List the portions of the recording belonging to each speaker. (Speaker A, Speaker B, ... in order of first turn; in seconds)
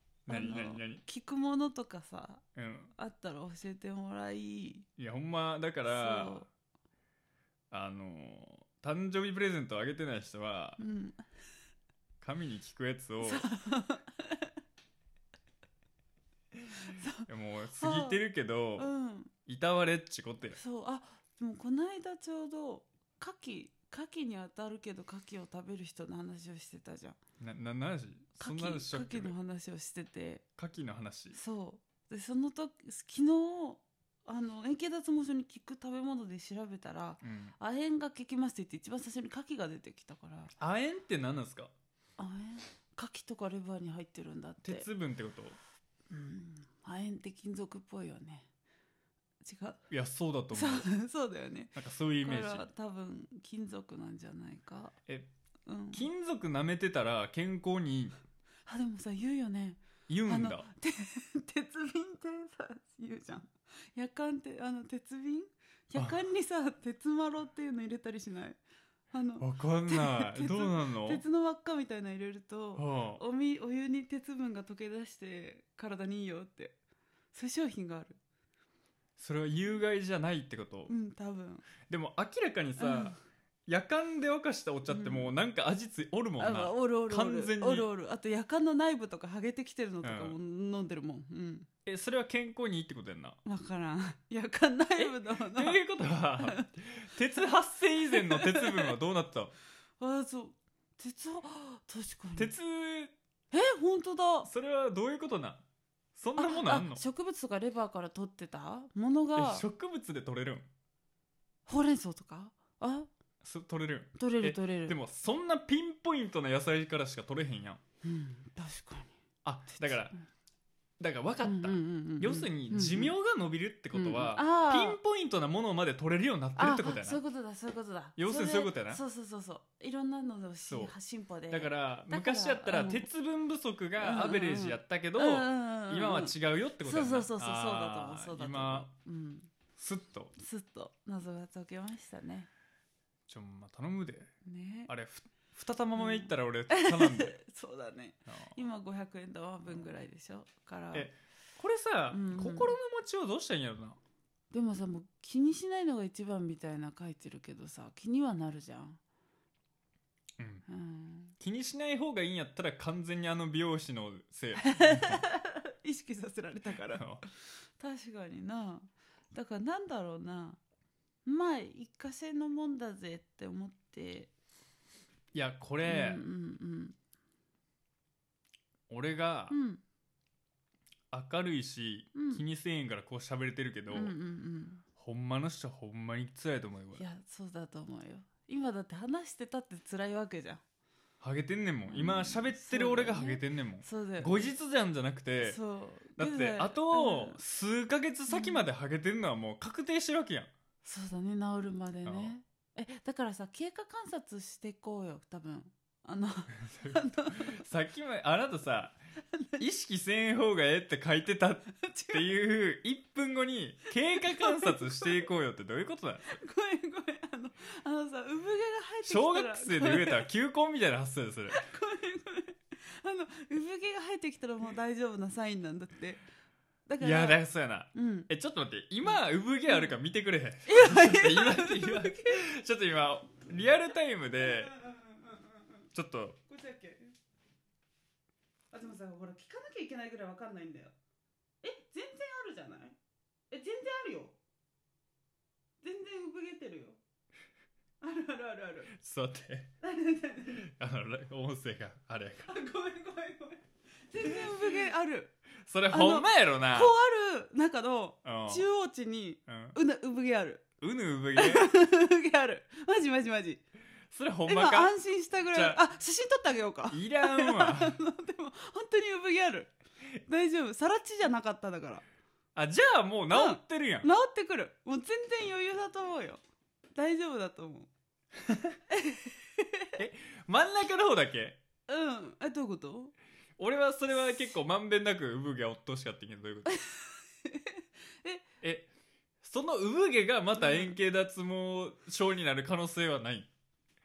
Speaker A: 0.3-1.0, 2.6-2.9, 5.0-6.5, 7.7-10.8, 12.2-13.5, 17.3-18.9, 19.5-20.6, 27.4-29.3, 30.6-31.4, 37.2-37.5, 40.6-41.7, 44.6-45.6, 49.9-50.9, 51.8-52.7, 55.9-58.2, 60.1-60.7, 69.4-71.2, 72.8-73.2, 79.2-80.9, 81.8-87.9, 90.0-90.4, 91.9-93.4, 95.0-99.5, 102.4-103.1, 104.4-105.6, 106.2-107.0, 109.3-110.7, 113.4-117.8, 119.5-120.2, 121.0-127.2, 128.2-129.0, 130.7-130.9, 131.5-138.9, 139.8-140.3, 143.3-144.3, 144.9-147.4, 148.3-148.6, 150.9-154.0, 160.4-160.7, 161.4-165.2, 166.9-167.2, 175.3-176.2, 178.9-179.6, 181.1-184.2, 185.0-187.1, 191.2-195.6, 196.2-200.5, 202.1-202.3, 206.6-209.0, 209.6-216.3, 219.0-221.6, 227.0-234.8, 235.9-236.4, 248.9-249.7, 250.6-252.5, 255.7-256.9, 258.2-258.7, 259.5-259.8, 260.8-261.7, 264.1-264.9, 265.5-265.8, 266.9-268.0, 272.6-274.1, 278.5-278.8, 280.0-281.6, 283.6-286.8, 288.6-288.9, 289.4-293.5
Speaker B: 0.3-4.9, 5.8-6.5, 10.8-11.2, 13.2-14.5, 16.7-18.2, 18.8-19.3, 20.5-27.2, 28.4-30.4, 31.3-40.5, 42.2-44.9, 46.1-48.5, 49.4-49.8, 50.5-55.0, 55.7-56.1, 58.7-68.6, 69.1-76.8, 77.3-78.2, 80.9-81.7, 82.8-83.2, 84.9-85.3, 86.4-91.7, 93.5-95.8, 98.1-99.0, 100.0-102.5, 103.5-104.5, 106.4-109.7, 111.7-113.1, 114.2-115.0, 118.0-119.1, 119.7-120.2, 121.4-123.2, 123.9-125.0, 126.6-133.1, 134.0-139.5, 140.4-142.5, 144.4-144.9, 146.0-151.1, 152.1-152.8, 154.5-159.0, 160.7-161.4, 164.6-170.6, 171.2-174.3, 175.8-177.0, 179.5-179.8, 182.2-182.4, 183.9-184.8, 187.0-190.6, 191.9-194.5, 195.4-197.4, 198.3-198.6, 200.8-207.6, 209.2-209.6, 211.7-212.3, 214.1-215.3, 216.3-220.3, 221.5-226.2, 226.9-227.4, 227.9-228.3, 229.1-230.0, 230.7-232.4, 234.4-235.8, 236.5-237.2, 238.7-240.9, 241.6-243.0, 243.5-244.4, 245.8-247.0, 248.0-248.9, 249.8-250.7, 252.5-255.4, 255.9-260.6, 261.4-263.6, 264.5-269.7, 270.3-272.0, 273.3-276.4, 276.9-277.9, 278.9-279.9, 281.9-283.1, 286.7-288.4, 290.6-291.0